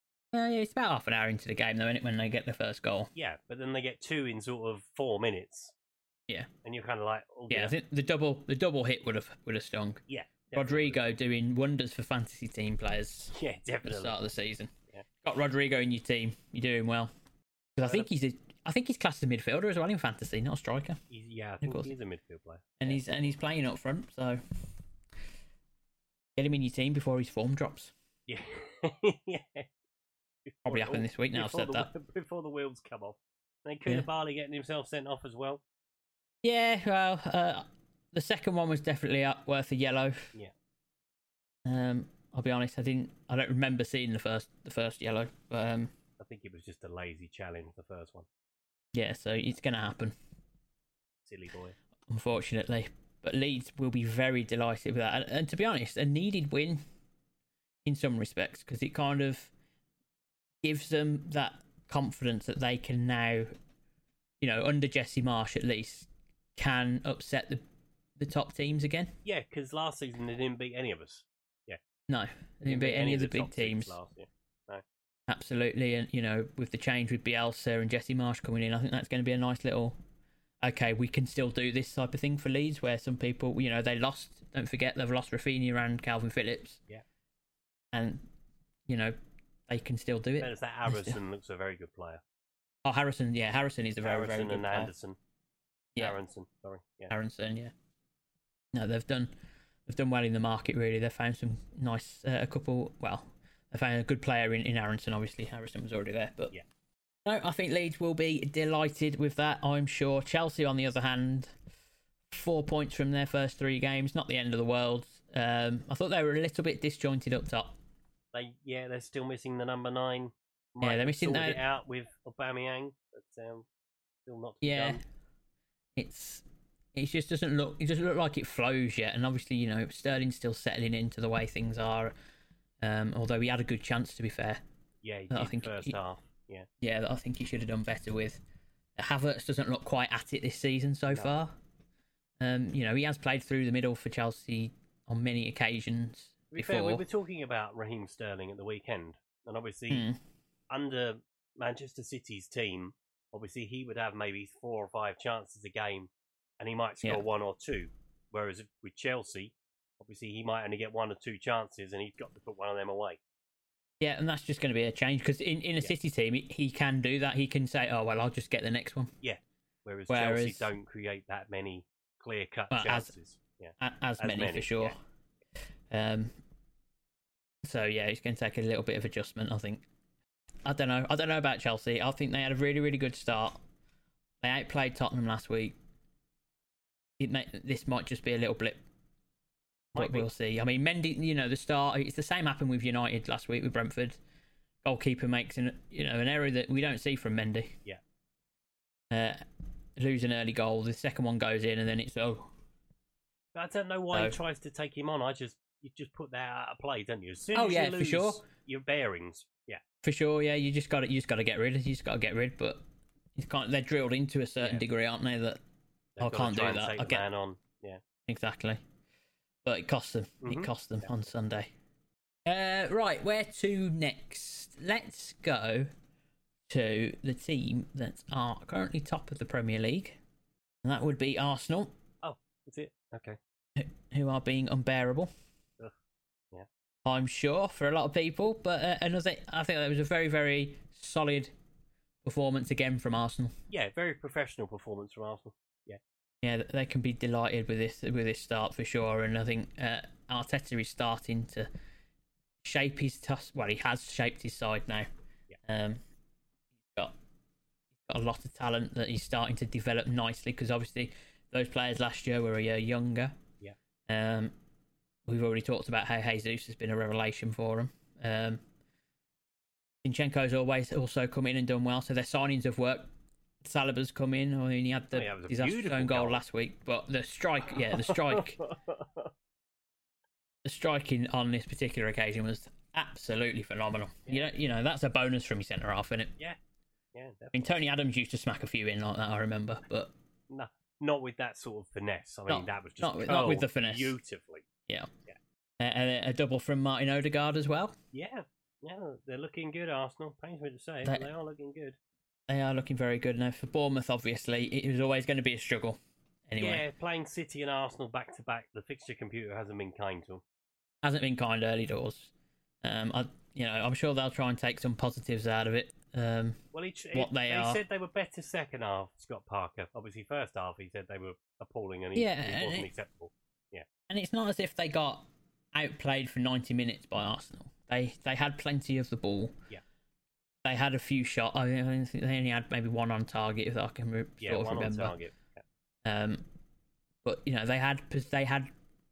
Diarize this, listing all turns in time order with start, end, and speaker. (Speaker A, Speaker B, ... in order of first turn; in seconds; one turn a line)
Speaker A: 0.3-3.1
Speaker B: 3.1-5.7
Speaker B: 6.6-7.8
Speaker A: 7.5-10.0
Speaker B: 10.1-11.2
Speaker A: 10.5-17.1
Speaker B: 13.3-14.2
Speaker A: 17.8-21.0
Speaker B: 21.1-23.0
Speaker A: 21.6-21.9
Speaker A: 22.8-24.4
Speaker A: 26.4-27.9
Speaker B: 28.3-29.7
Speaker B: 30.5-35.6
Speaker A: 30.7-31.9
Speaker A: 36.4-40.4
Speaker A: 41.7-45.9
Speaker B: 46.2-48.3
Speaker A: 48.9-50.1
Speaker B: 51.2-51.8
Speaker A: 52.1-56.8
Speaker A: 57.9-59.5
Speaker A: 60.6-63.5
Speaker A: 64.4-67.6
Speaker A: 68.2-69.1
Speaker B: 69.2-71.8
Speaker A: 72.1-74.0
Speaker B: 72.7-74.8
Speaker A: 75.3-80.0
Speaker A: 80.6-86.8
Speaker A: 87.9-88.3
Speaker A: 88.9-89.2
Speaker A: 89.7-91.2
Speaker B: 90.4-92.2
Speaker A: 92.8-94.9
Speaker B: 94.0-95.2
Speaker B: 96.0-97.1
Speaker A: 97.1-97.7
Speaker A: 98.7-99.3
Speaker A: 99.9-106.5
Speaker A: 107.3-111.5
Speaker A: 112.3-117.8
Speaker B: 118.3-123.7
Speaker A: 120.8-121.6
Speaker B: 124.3-125.0
Speaker A: 124.6-125.0
Speaker A: 126.0-126.4
Speaker A: 127.0-132.1
Speaker A: 132.8-134.6
Speaker B: 135.0-136.7
Speaker A: 135.3-136.0
Speaker A: 136.8-138.4
Speaker A: 139.0-141.5
Speaker A: 142.4-147.0
Speaker B: 146.5-150.1
Speaker A: 149.9-150.2
Speaker B: 150.7-163.2
Speaker A: 164.0-169.1
Speaker B: 169.2-174.9
Speaker A: 170.1-170.7
Speaker A: 172.7-173.1
Speaker A: 173.8-175.0
Speaker A: 175.9-176.3
Speaker A: 177.6-179.8
Speaker A: 180.7-183.6
Speaker A: 184.4-185.8
Speaker A: 187.2-188.8
Speaker B: 189.9-190.3
Speaker A: 189.9-194.2
Speaker A: 194.8-197.8
Speaker A: 199.1-199.4
Speaker A: 200.0-202.5
Speaker B: 203.5-209.8
Speaker A: 204.1-204.4
Speaker A: 207.5-208.4
Speaker A: 210.0-212.8
Speaker A: 213.4-215.6
Speaker B: 216.2-218.0
Speaker A: 216.2-217.3
Speaker A: 218.3-218.8
Speaker A: 219.7-221.7
Speaker B: 220.4-221.1
Speaker A: 222.5-225.9
Speaker A: 226.7-230.2
Speaker A: 230.8-231.9
Speaker B: 232.2-233.4
Speaker A: 233.8-235.3
Speaker A: 237.1-241.5
Speaker A: 242.2-243.6
Speaker B: 243.7-246.0
Speaker A: 246.4-251.7
Speaker A: 252.6-255.1
Speaker A: 255.6-256.0
Speaker A: 258.1-263.4
Speaker A: 264.1-264.5
Speaker A: 265.3-268.6
Speaker A: 270.0-273.1
Speaker A: 273.6-278.6
Speaker B: 275.1-276.4
Speaker B: 277.8-279.3
Speaker A: 280.6-286.3
Speaker B: 287.1-287.8
Speaker A: 287.5-290.1
Speaker B: 290.5-294.7
Speaker A: 292.5-294.2
Speaker A: 295.8-298.0
Speaker B: 298.1-302.0
Speaker A: 301.0-301.3
Speaker A: 302.5-306.8
Speaker B: 306.6-310.4
Speaker A: 311.0-312.3
Speaker A: 312.8-316.6
Speaker B: 316.7-323.9
Speaker A: 317.1-317.8
Speaker A: 322.1-322.9
Speaker A: 324.1-329.6
Speaker A: 330.6-335.1
Speaker B: 334.4-335.6
Speaker A: 336.1-336.4
Speaker A: 337.2-338.7